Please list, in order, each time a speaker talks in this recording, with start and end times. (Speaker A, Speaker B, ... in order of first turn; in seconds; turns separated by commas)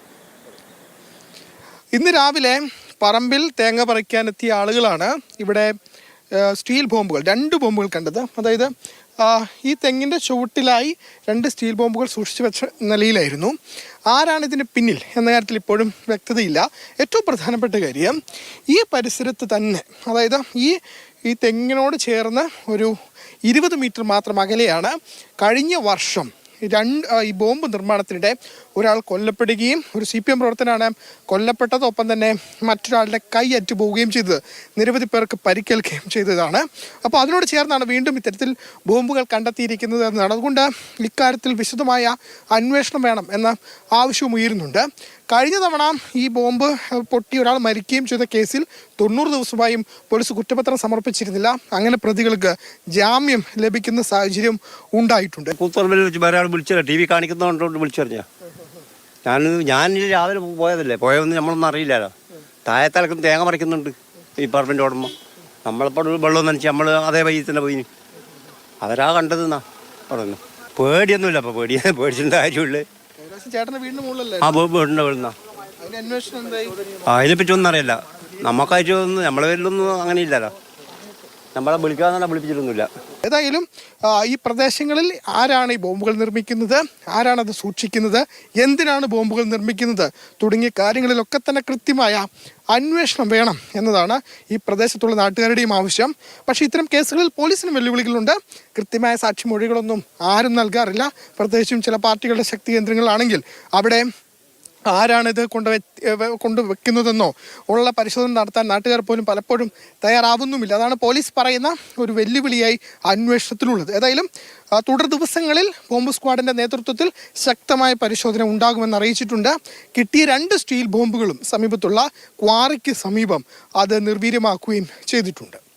Speaker A: 1.9-5.7, Speaker A: 6.3-13.6, Speaker A: 14.1-18.2, Speaker A: 18.7-22.9, Speaker A: 23.4-55.5, Speaker B: 55.6-58.3, Speaker B: 59.2-62.1, Speaker B: 62.6-65.1, Speaker B: 65.7-67.9, Speaker B: 68.8-72.8, Speaker A: 73.2-74.6, Speaker B: 74.4-75.3, Speaker A: 75.8-76.8, Speaker B: 77.1-80.5, Speaker B: 81.5-82.9, Speaker A: 83.2-104.0, Speaker A: 104.9-125.6